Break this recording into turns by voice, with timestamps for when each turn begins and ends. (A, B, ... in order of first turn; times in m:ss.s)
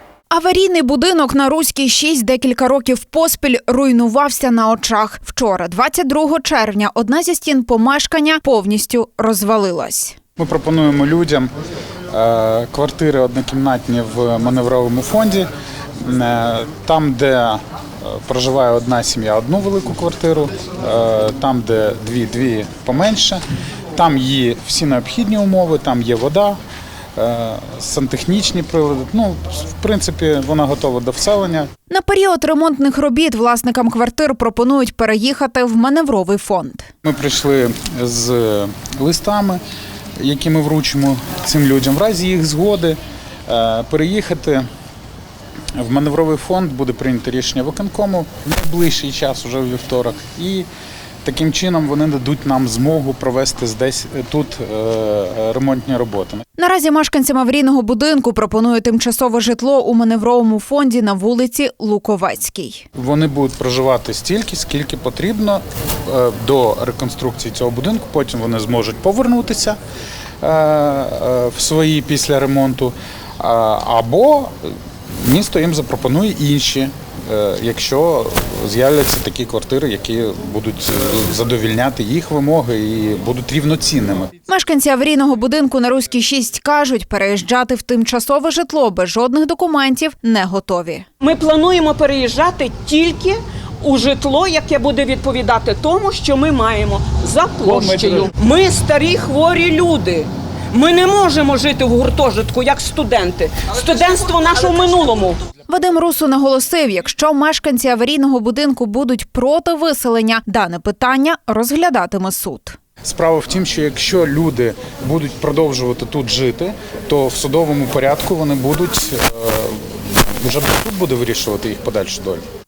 0:00.3-0:10.2 A
0:10.4-0:11.5 B
0:12.1-0:23.4 B
0:23.9-0:26.6 B
0:27.2-0:31.7 B
0:31.9-0:36.9 A
0:37.0-0:39.6 B
0:40.2-0:44.7 B
0:45.8-0:50.7 B
0:51.2-0:56.4 B
0:56.6-1:02.8 A
1:03.0-1:09.8 B
1:10.4-1:24.3 B
1:24.5-1:31.1 A
1:31.2-1:45.4 C
1:37.6-1:38.3 B
1:45.7-1:52.8 A
1:53.0-2:02.4 B